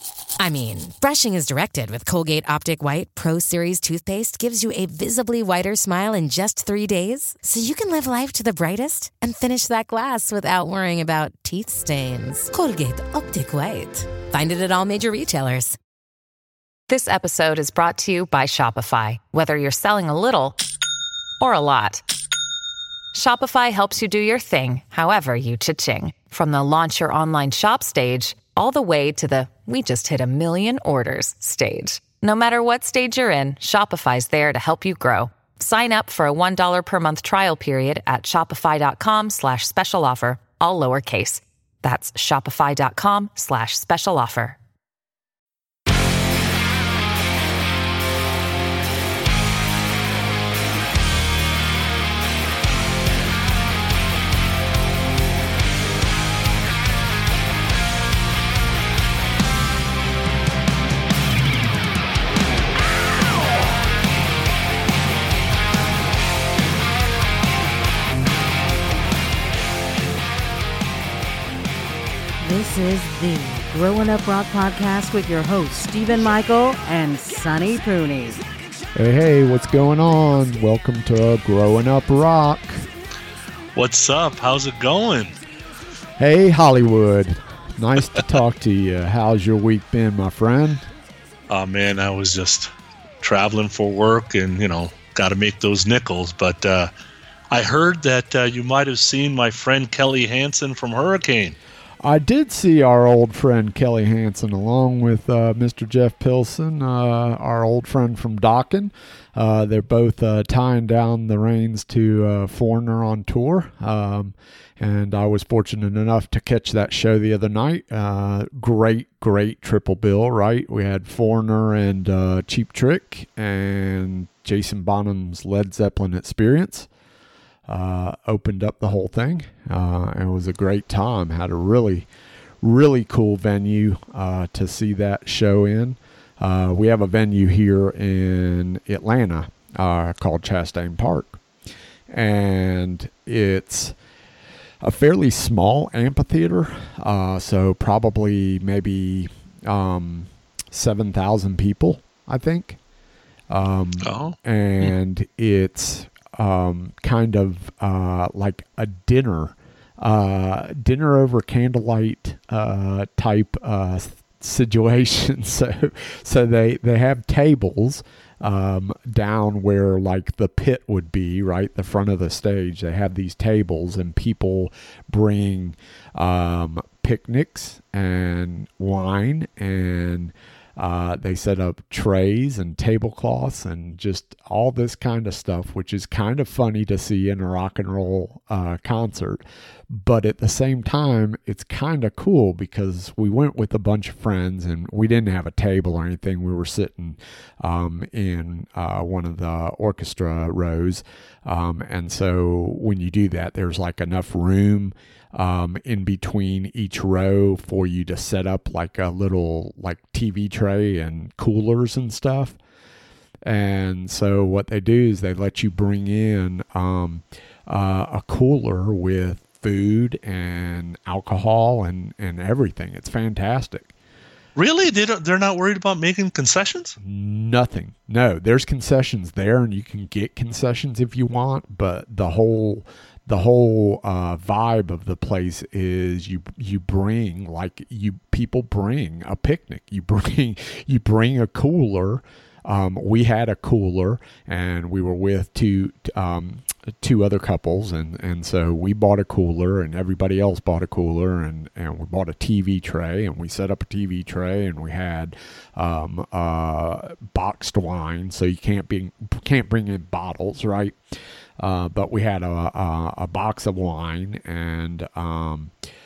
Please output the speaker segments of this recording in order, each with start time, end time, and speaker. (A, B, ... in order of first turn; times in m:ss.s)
0:00.4-0:15.8 A
0:16.9-0:20.6 B
0:21.4-0:22.0 B
0:23.1-0:44.6 B
1:12.4-1:18.4 C
1:18.9-1:22.8 D
1:23.7-1:25.4 E
1:26.2-1:30.8 D
1:31.5-1:36.9 E
1:37.5-1:41.6 E
1:42.0-2:06.9 D
2:07.7-2:12.1 D
2:12.6-2:21.4 D
2:22.1-2:23.9 D
2:24.8-2:32.8 D
2:33.5-3:32.6 D
2:34.0-2:34.9 E
3:33.4-3:43.9 D
3:44.6-3:47.0 E
3:47.0-4:21.0 D
4:21.6-4:25.7 D